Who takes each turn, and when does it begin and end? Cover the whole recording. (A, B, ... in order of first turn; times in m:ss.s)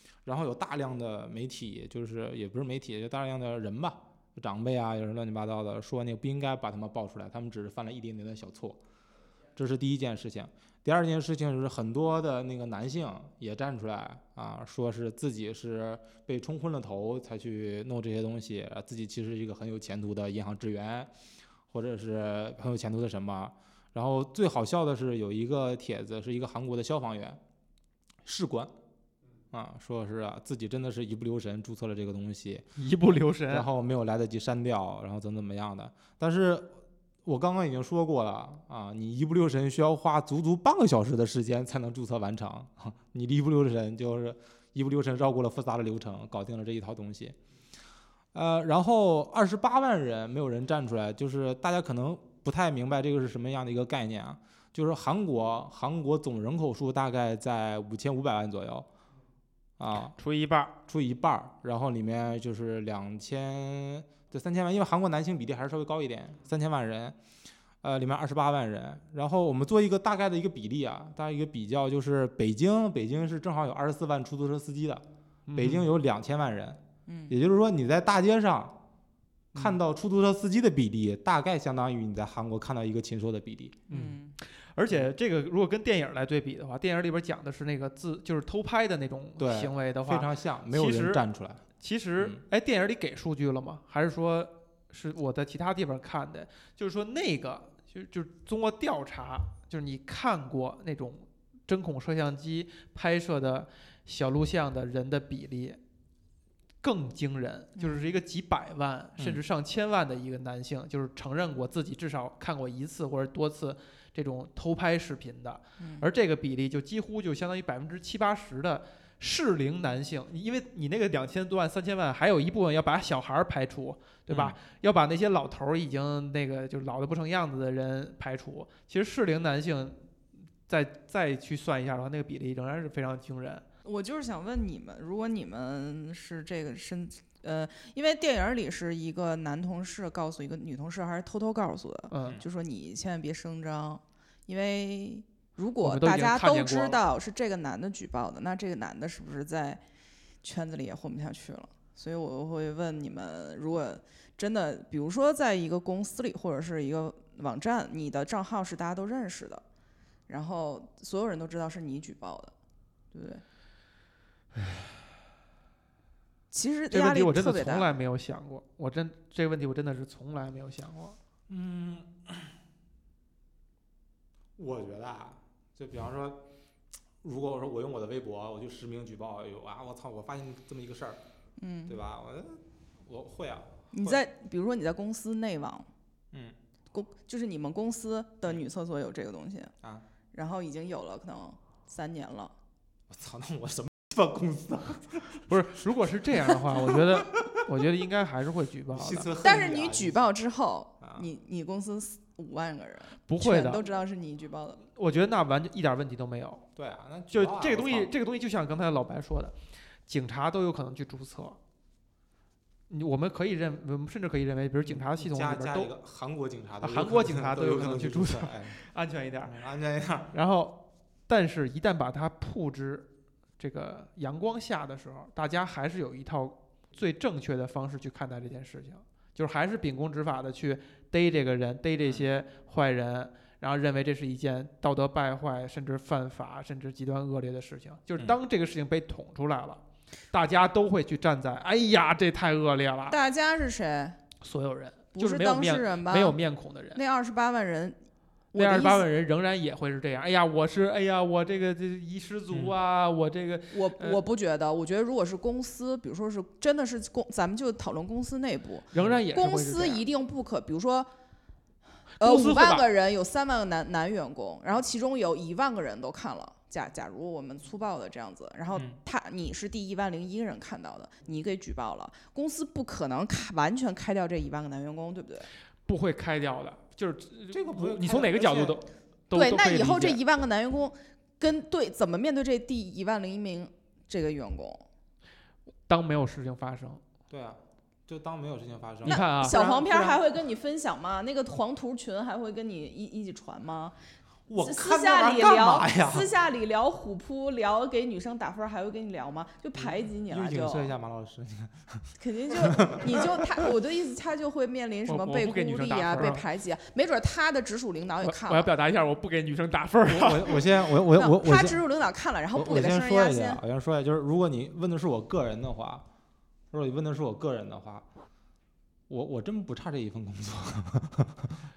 0:00.3-0:08.8 A
0:09.6-0:21.1 A
0:21.7-0:27.4 A
0:28.2-0:28.7 A
0:29.5-0:32.7 A
0:32.8-0:33.7 B
0:33.5-0:36.7 A
0:37.2-0:47.4 A
0:48.3-0:58.9 A
0:59.8-1:00.1 A
1:00.1-1:00.8 B
1:00.9-1:07.2 A
1:07.8-1:18.8 A
1:15.5-1:15.9 B
1:17.1-1:17.4 C
1:19.6-1:23.8 A
1:23.9-1:31.2 B
1:23.9-1:24.4 C
1:29.4-1:31.6 A
1:31.8-1:45.8 B
1:46.8-2:10.0 B
1:47.8-1:48.0 C
1:55.8-1:56.1 C
2:04.3-2:04.6 A
2:10.7-2:13.6 B
2:13.8-2:29.8 C
2:22.1-2:22.4 B
2:25.8-2:27.0 B
2:30.4-2:39.6 C
2:40.3-2:42.5 C
2:43.1-2:43.4 C
2:46.5-2:47.9 C
2:46.9-2:51.2 B
2:51.5-2:52.5 A
2:54.6-2:56.4 A
2:57.2-3:01.2 A
3:01.6-3:02.0 C
3:01.9-3:04.2 A
3:03.9-3:05.9 C
3:06.9-3:09.7 C
3:10.3-3:12.5 C
3:13.1-3:15.5 A
3:15.5-3:19.3 B
3:16.8-3:17.5 A
3:18.9-3:20.3 A
3:19.4-3:24.8 C
3:21.0-3:21.3 A
3:23.3-3:23.9 B
3:24.8-3:26.6 B
3:26.8-3:28.1 A
3:27.3-3:29.6 B
3:30.1-3:31.6 B
3:32.9-3:35.9 B
3:34.9-3:38.8 A
3:36.8-3:39.6 B
3:39.5-3:40.3 A
3:40.3-3:43.1 B
3:43.6-3:59.8 B
4:00.3-4:03.2 B
4:03.1-4:04.2 C
4:04.4-4:07.0 B
4:05.2-4:06.4 C
4:07.0-4:08.0 C
4:08.5-4:09.1 C
4:08.5-4:14.2 B
4:13.7-4:21.1 C
4:18.9-4:20.0 B
4:22.2-4:22.9 B
4:22.2-4:35.5 C
4:35.9-4:40.2 B
4:37.5-4:38.8 A
4:39.3-4:44.8 C
4:45.9-4:47.0 B
4:47.3-4:49.2 A
4:49.0-4:50.2 B
4:49.0-4:54.0 C
4:54.5-4:56.3 A
4:54.6-5:00.9 C
4:59.8-5:03.7 A
5:02.2-5:08.7 C
5:05.1-5:06.5 B
5:08.2-5:10.6 B
5:10.1-5:11.8 A
5:11.1-5:13.6 C
5:12.6-5:16.0 A
5:16.7-5:18.0 A
5:19.1-5:21.6 A